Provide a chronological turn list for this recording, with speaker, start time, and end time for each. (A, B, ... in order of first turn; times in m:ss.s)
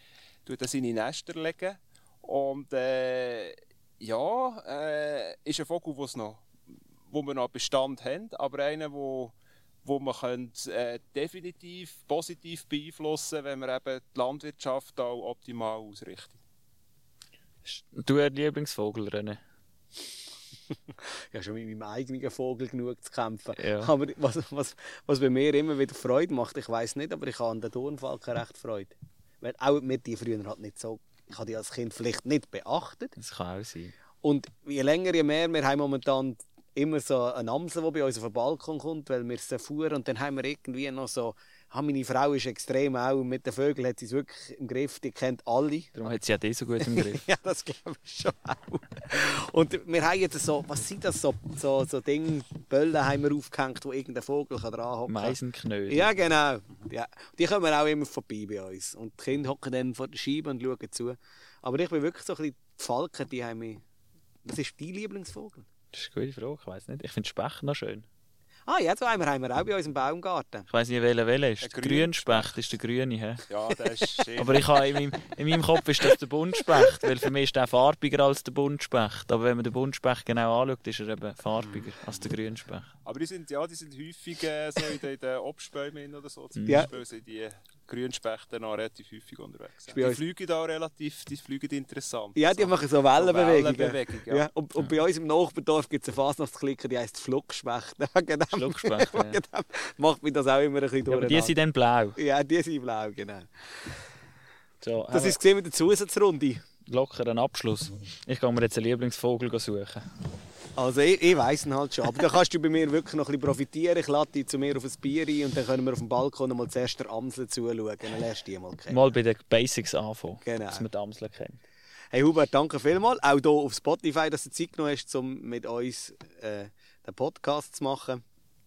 0:00.4-0:06.4 A
0:07.1-0:16.4 A
0:17.6-0:19.4 B
0:21.0-0:33.2 C
0:23.6-0:23.9 B
0:33.2-0:33.9 B
0:34.2-0:45.9 C
0:45.9-0:47.2 B
0:46.8-0:55.4 C
0:55.1-0:56.2 B
0:55.9-1:03.8 C
1:04.4-1:05.7 C
1:05.9-1:08.0 B
1:08.7-1:10.7 C
1:10.7-1:13.4 B
1:11.6-1:12.5 A
1:13.5-1:14.8 A
1:14.4-1:22.9 B
1:23.0-1:34.5 A
1:26.6-1:26.9 B
1:29.9-1:30.2 C
1:32.4-1:41.6 C
1:38.5-1:39.4 B
1:41.1-1:42.2 B
1:42.2-1:43.9 C
1:44.8-1:45.4 B
1:45.1-1:46.6 C
1:46.8-1:50.0 B
1:50.8-1:59.0 C
1:58.9-2:01.6 B
2:00.4-2:00.8 C
2:02.1-2:08.2 C